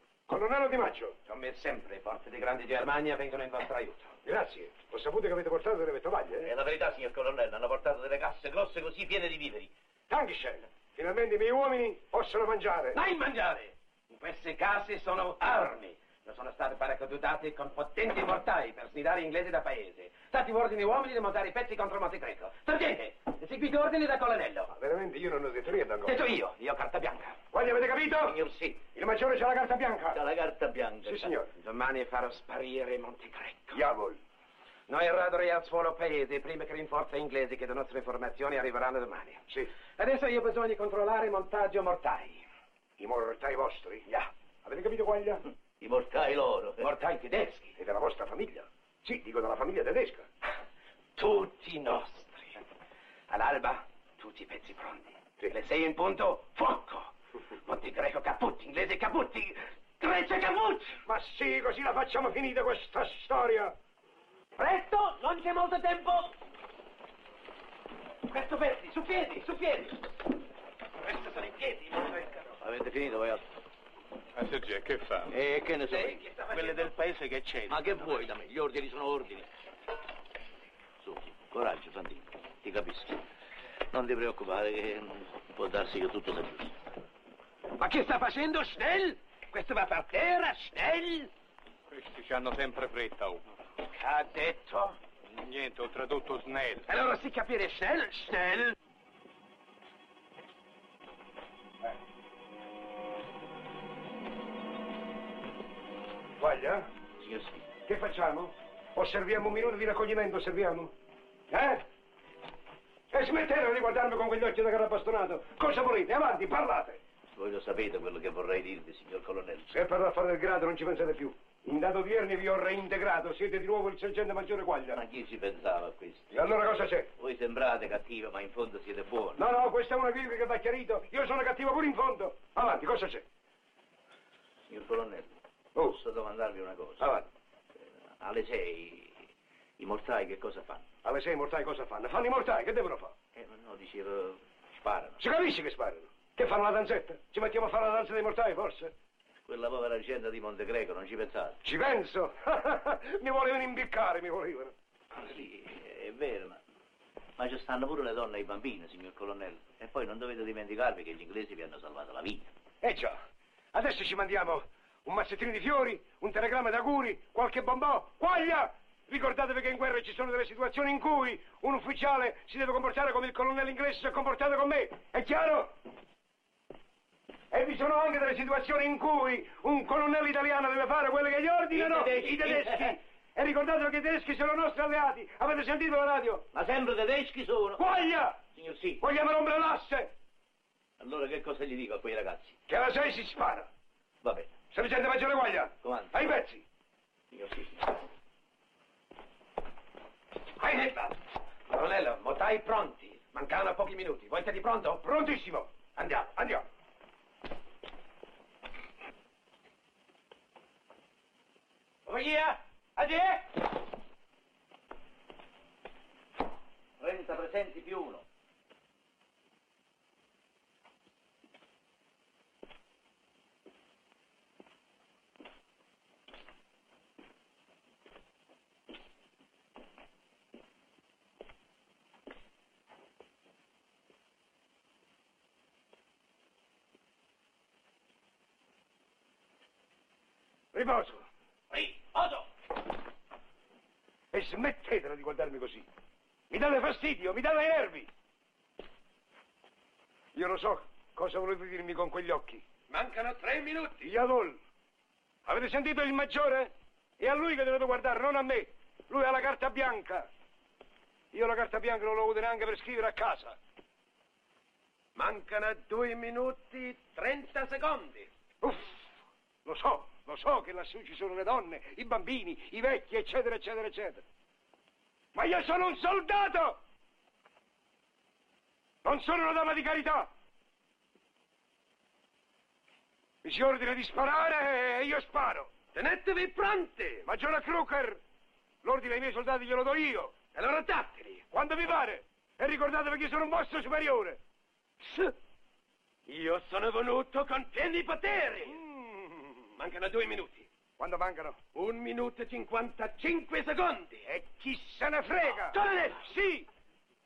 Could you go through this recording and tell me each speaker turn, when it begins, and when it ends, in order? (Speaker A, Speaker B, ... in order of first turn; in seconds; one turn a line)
Speaker A: 0.3-1.1
Speaker B: 1.3-4.1
Speaker A: 4.2-6.5
Speaker C: 6.4-9.7
Speaker A: 10.1-13.0
Speaker B: 12.9-24.7
Speaker A: 24.7-26.2
Speaker B: 26.0-27.4
Speaker A: 27.5-28.4
Speaker C: 28.2-28.8
Speaker A: 28.9-30.2
Speaker C: 30.1-31.4
Speaker A: 31.1-31.5
Speaker B: 31.5-33.8
Speaker A: 33.7-34.2
Speaker B: 34.9-42.5
Speaker A: 43.0-44.1
Speaker A: 44.6-45.4
Speaker C: 45.8-46.8
Speaker B: 46.8-47.7
Speaker A: 47.8-50.2
Speaker B: 51.1-52.6
Speaker B: 53.3-57.1
Speaker B: 57.6-61.0
Speaker A: 61.0-63.7
Speaker B: 64.6-66.3
Speaker B: 68.2-70.1
Speaker B: 71.0-72.5
Speaker C: 72.6-73.4
Speaker D: 74.3-75.3
Speaker C: 75.3-76.2
Speaker B: 75.9-76.9
Speaker D: 76.5-78.1
Speaker C: 77.7-79.5
Speaker C: 81.0-83.2
Speaker C: 83.9-86.7
Speaker B: 87.8-91.3
Speaker D: 91.9-93.4
Speaker B: 93.8-95.0
Speaker D: 95.3-96.8
Speaker B: 96.8-98.7
Speaker A: 106.4-106.8
Speaker C: 107.2-107.6
Speaker A: 107.9-110.9
Speaker A: 111.5-111.8
Speaker A: 113.1-117.0
Speaker C: 117.3-119.7
Speaker A: 119.7-125.0
Speaker C: 124.9-126.3
Speaker A: 126.3-127.1
Speaker C: 127.2-129.4
Speaker A: 129.3-133.2
Speaker C: 134.7-135.3
Speaker A: 135.7-136.0
Speaker C: 135.8-137.1
Speaker A: 137.0-137.3
Speaker C: 137.8-139.1
Speaker C: 139.8-140.8
Speaker A: 141.0-143.1
Speaker C: 143.3-145.2
Speaker A: 145.2-148.9
Speaker C: 149.4-151.6
Speaker A: 151.6-154.7
Speaker C: 155.1-156.6
Speaker C: 157.4-162.5
Speaker A: 162.8-163.2
Speaker A: 163.7-175.7
Speaker A: 177.5-186.5
Speaker C: 181.7-183.0
Speaker C: 186.5-187.8
Speaker A: 187.8-188.4
Speaker C: 188.5-189.0
Speaker A: 189.0-190.1
Speaker C: 191.0-192.6
Speaker A: 192.7-193.7
Speaker C: 194.2-194.5
Speaker A: 194.7-196.6
Speaker C: 195.8-196.3
Speaker C: 197.3-198.0
Speaker B: 200.6-201.2
Speaker B: 201.7-205.1
Speaker A: 205.0-205.7
Speaker B: 205.9-206.6
Speaker B: 212.1-212.4
Speaker C: 212.1-213.4
Speaker C: 217.0-218.2
Speaker A: 240.7-241.2
Speaker C: 241.7-242.4
Speaker A: 244.3-245.8
Speaker A: 246.5-248.1
Speaker A: 250.3-252.6
Speaker B: 252.9-254.0
Speaker A: 254.0-254.6
Speaker A: 255.4-260.3
Speaker A: 261.3-263.6
Speaker B: 265.1-268.3
Speaker A: 268.6-268.9
Speaker A: 269.6-274.2
Speaker A: 275.3-276.8
Speaker A: 279.0-280.3
Speaker A: 283.4-285.7
Speaker B: 285.9-287.3
Speaker A: 287.2-288.2
Speaker A: 288.8-290.3
Speaker B: 290.5-291.4
Speaker A: 291.5-294.4
Speaker B: 295.0-295.3
Speaker B: 296.3-298.8
Speaker A: 298.7-299.6
Speaker B: 299.8-300.7
Speaker A: 301.0-301.6
Speaker B: 301.7-304.2
Speaker A: 304.3-306.7
Speaker B: 305.5-306.2